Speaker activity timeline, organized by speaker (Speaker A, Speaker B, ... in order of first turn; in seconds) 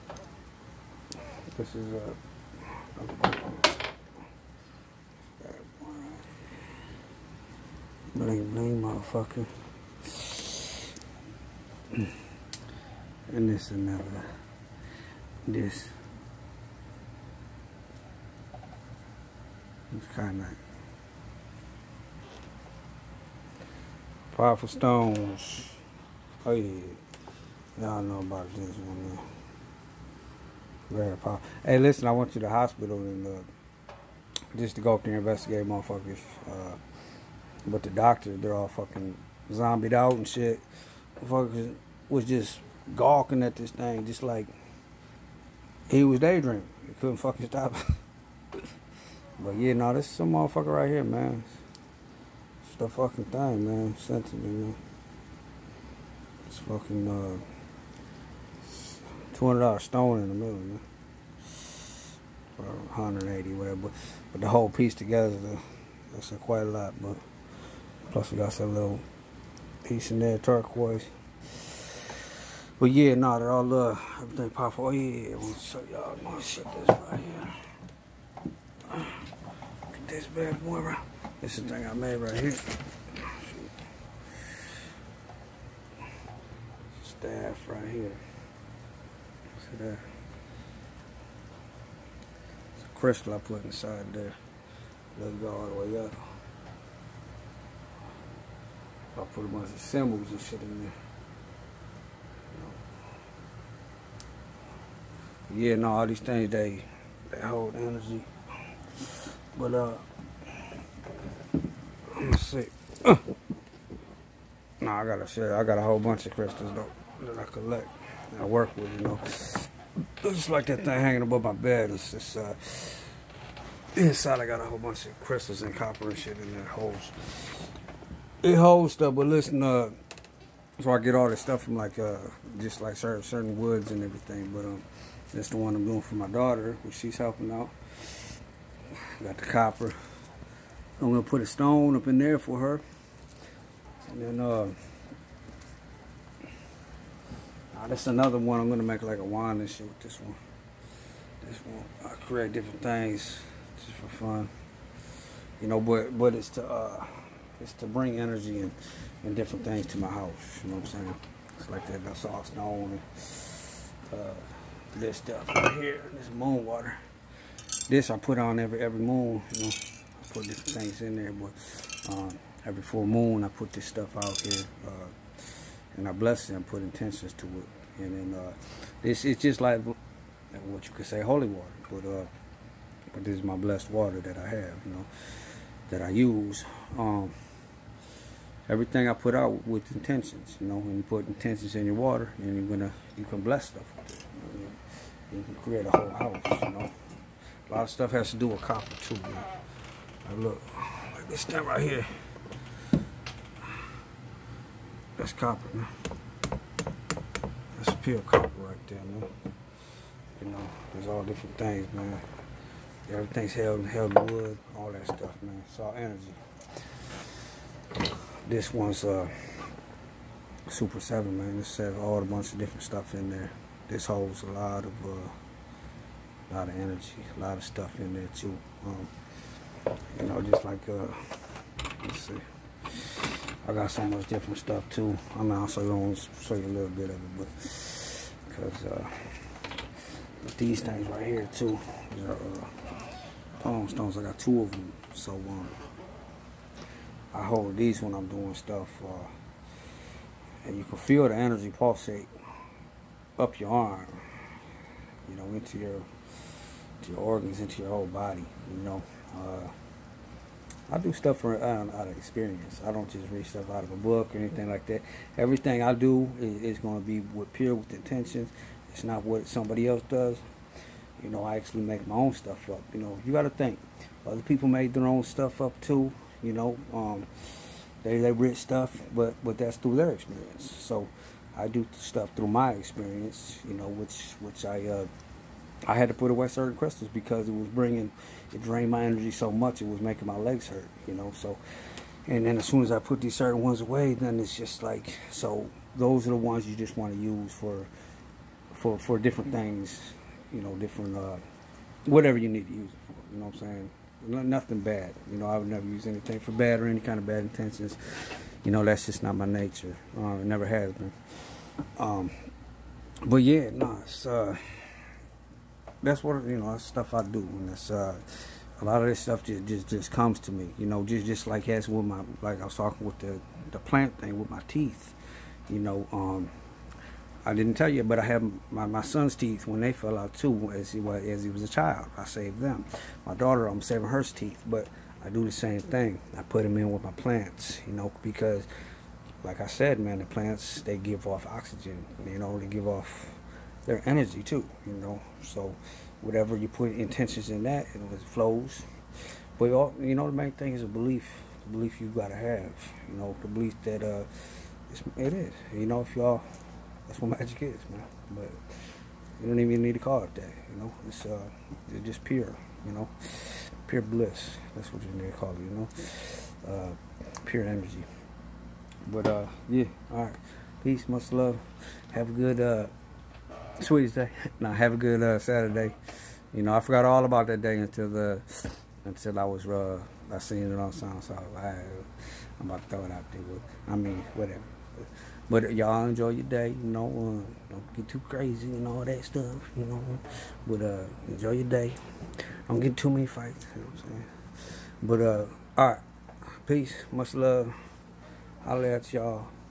Speaker A: 1.5-3.7, 5.4-6.3, 8.1-9.5, 10.0-10.9, 11.9-12.2, 13.3-14.3, 15.5-16.0, 19.9-20.6, 24.3-25.8, 26.4-27.0, 27.8-29.2, 30.9-33.5, 34.5-36.8, 37.6-40.6, 41.2-44.5, 45.9-47.8, 49.4-51.6, 52.6-54.8, 56.5-57.4, 58.6-60.8, 61.5-61.9, 62.6-67.2, 68.1-69.0, 69.8-77.6, 78.9-79.2, 79.9-83.7, 84.3-84.7, 86.9-88.2, 89.6-90.0, 92.8-94.3, 95.2-96.2, 99.1-100.9, 102.5-102.8, 105.5-108.3, 109.0-110.1, 112.1-113.3, 114.8-123.1, 124.0-127.7, 128.4-129.9, 130.8-138.3, 139.2-140.0, 141.0-142.8, 144.1-144.8, 147.7-150.4, 151.4-154.5, 155.6-167.0, 167.9-180.0, 180.5-182.3, 183.1-187.4, 188.7-196.9, 197.7-199.5, 200.2-202.1, 205.2-205.9, 207.8-209.3, 210.4-212.2, 213.1-216.4, 218.4-219.7, 220.7-225.3, 226.5-229.1, 230.1-239.5, 240.4-242.9, 243.6-245.8, 247.3-249.3, 250.6-252.3, 253.4-254.2, 255.2-256.1, 257.0-259.7, 260.9-270.4, 271.2-285.1, 285.9-291.6, 292.3-297.9, 298.7-301.4, 302.1-311.2, 312.0-312.3, 313.2-315.1, 316.0-325.2, 325.7-326.5, 327.4-338.7, 339.4-348.9, 349.6-356.4, 357.1-368.1, 369.1-372.9, 373.8-376.0, 376.5-392.0, 392.7-394.3, 395.0-396.0, 396.6-397.8, 398.6-399.5